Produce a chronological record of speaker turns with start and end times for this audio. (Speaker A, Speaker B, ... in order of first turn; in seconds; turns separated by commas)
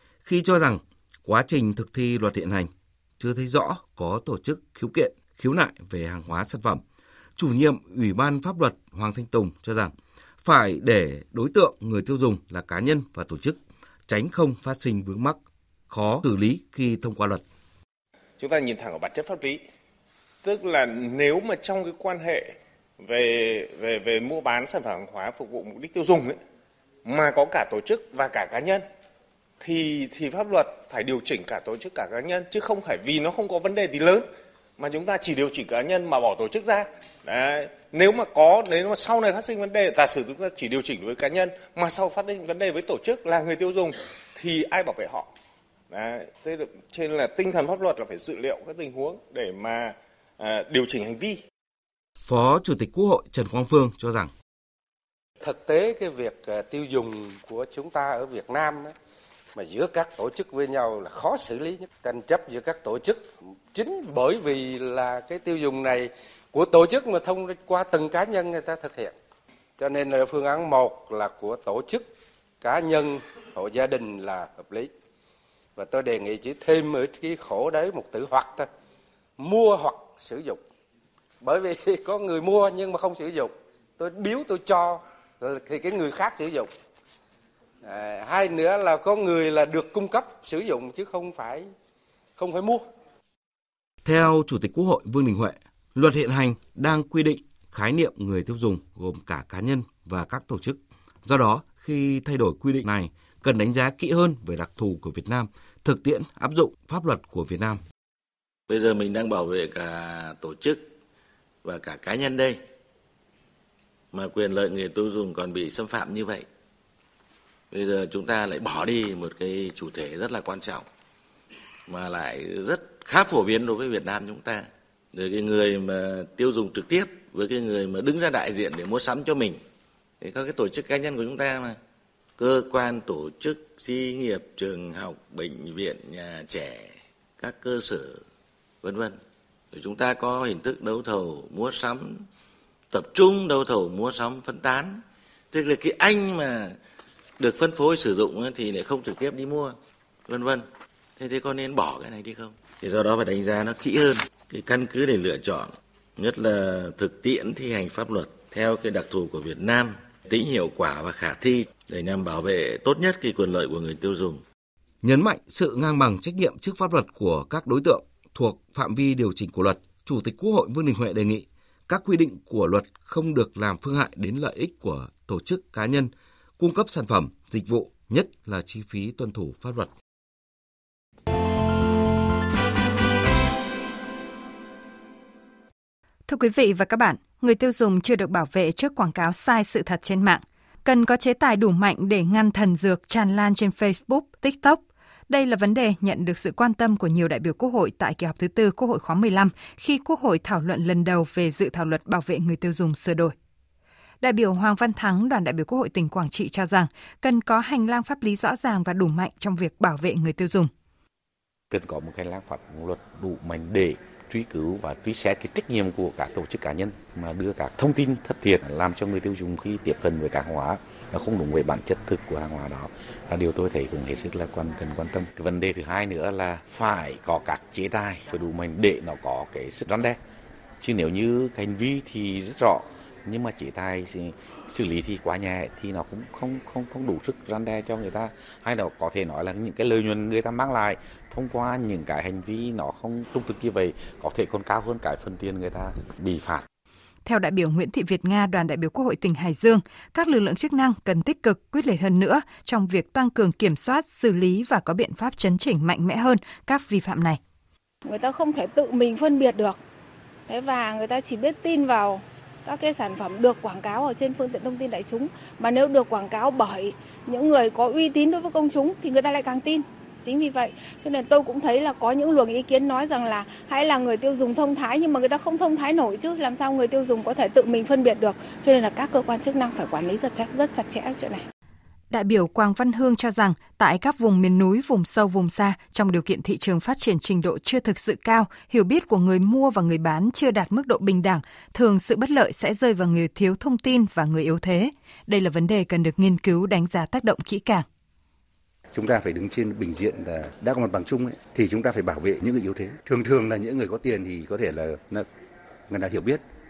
Speaker A: 0.2-2.7, Speaker A: 3.2-6.8, Speaker A: 7.4-9.9, Speaker A: 10.4-17.4, Speaker B: 18.4-19.6, Speaker B: 20.4-22.5, Speaker B: 23.0-26.4, Speaker B: 27.0-28.8, Speaker B: 29.6-34.2, Speaker B: 34.8-45.2, Speaker B: 45.9-51.4, Speaker A: 52.3-54.3, Speaker C: 55.4-58.9, Speaker C: 59.5-69.1, Speaker C: 69.8-72.1, Speaker C: 72.6-74.9, Speaker C: 75.8-78.7, Speaker C: 79.4-80.6, Speaker C: 81.4-86.7, Speaker C: 87.8-91.7, Speaker C: 92.4-92.8, Speaker A: 94.0-107.8, Speaker D: 108.7-110.8, Speaker D: 111.6-112.6, Speaker D: 114.1-116.5, Speaker D: 117.7-120.8, Speaker D: 121.9-129.6, Speaker D: 130.2-131.8, Speaker D: 132.4-138.2, Speaker D: 138.8-139.2, Speaker D: 139.7-142.2, Speaker D: 142.9-145.0, Speaker D: 145.5-146.8, Speaker D: 147.4-149.8, Speaker D: 150.3-150.6, Speaker D: 151.2-164.4, Speaker A: 165.0-179.9, Speaker E: 186.2-203.3, Speaker E: 204.2-210.7, Speaker F: 211.7-230.2, Speaker F: 230.8-246.7, Speaker E: 247.2-257.4, Speaker G: 258.0-259.8, Speaker G: 260.5-281.4, Speaker E: 282.1-297.9, Speaker H: 298.9-305.2, Speaker H: 305.9-306.4